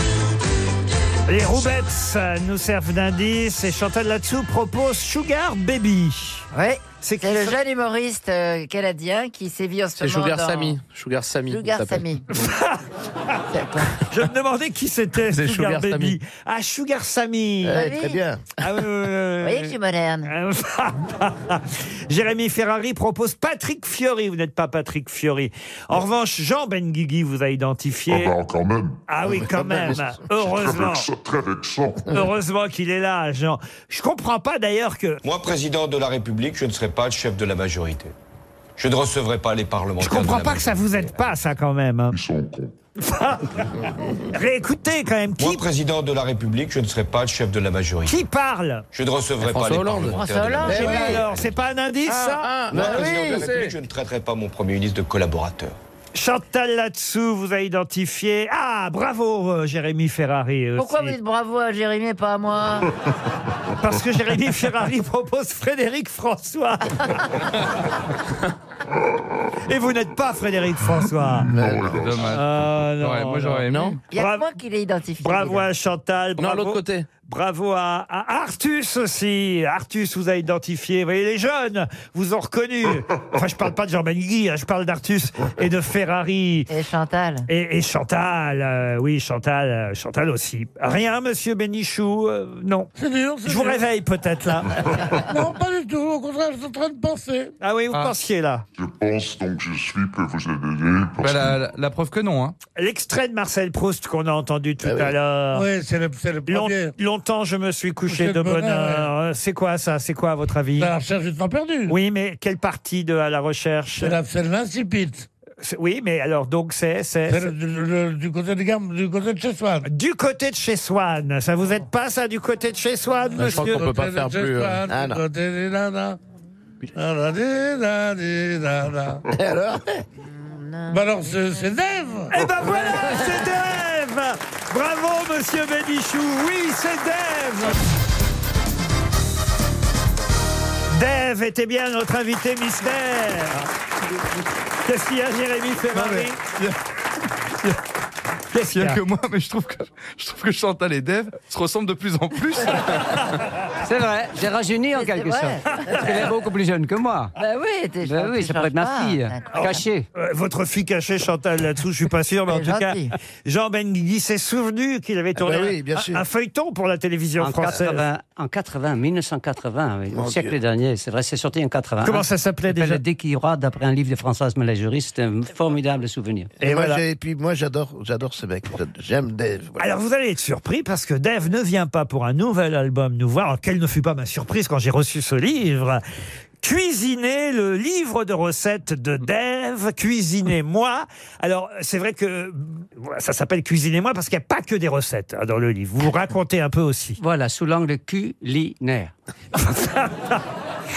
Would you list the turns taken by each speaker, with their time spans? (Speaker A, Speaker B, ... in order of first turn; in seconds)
Speaker A: 1.3-6.5, 7.0-7.6, 12.3-12.8, 14.1-17.9, 18.6-19.7, 20.2-28.3, 29.1-31.1, 32.1-35.2, 40.0-42.1, 43.0-45.6, 48.0-48.8, 50.6-52.5, 56.1-61.2, 63.8-67.1, 69.7-71.5, 72.2-74.5, 75.2-86.7, 87.5-92.9, 93.4-94.9, 97.6-98.7, 102.8-105.7, 106.5-110.9, 111.9-114.2, 115.6-117.5, 119.8-123.8, 132.3-137.8, 140.9-143.6, 144.8-146.4, 148.5-149.0, 155.7-156.3, 159.5-168.0, 172.0-173.0, 176.6-177.0, 179.8-186.0, 186.6-197.2, 199.6-200.4
Speaker B: 6.5-10.8, 11.5-12.2, 13.5-13.9, 17.7-18.2, 19.4-20.3, 50.0-51.3, 60.8-62.9, 74.1-75.7, 86.7-87.5, 130.2-131.7, 154.9-156.3, 157.4-159.7, 162.5-163.1
Speaker C: 10.0-12.1, 15.3-16.1, 49.4-50.2, 52.1-53.8, 73.7-74.0, 76.4-77.1, 123.4-124.8
Speaker D: 17.6-18.4, 29.2-30.1, 50.6-51.2, 52.7-53.5, 71.5-72.1, 104.8-105.1, 124.9-125.2, 129.3-130.0, 165.3-166.2, 170.1-170.5, 176.6-179.9
Speaker E: 28.1-29.0, 30.4-32.2, 42.1-42.8, 71.0-72.9, 98.7-101.7, 132.4-132.7
Speaker F: 35.2-38.1, 38.8-41.1, 45.4-48.2, 48.9-51.5, 52.7-55.8
Speaker G: 72.0-74.0, 101.2-102.5, 145.9-146.7, 148.7-152.8
Speaker H: 93.0-93.8, 95.3-97.5, 105.5-106.9, 108.1-109.1, 110.8-111.9, 114.0-115.3, 117.3-119.8, 123.3-126.2, 126.9-129.2, 130.9-132.3
Speaker I: 153.8-157.3, 158.0-160.1, 167.4-176.5, 197.2-199.1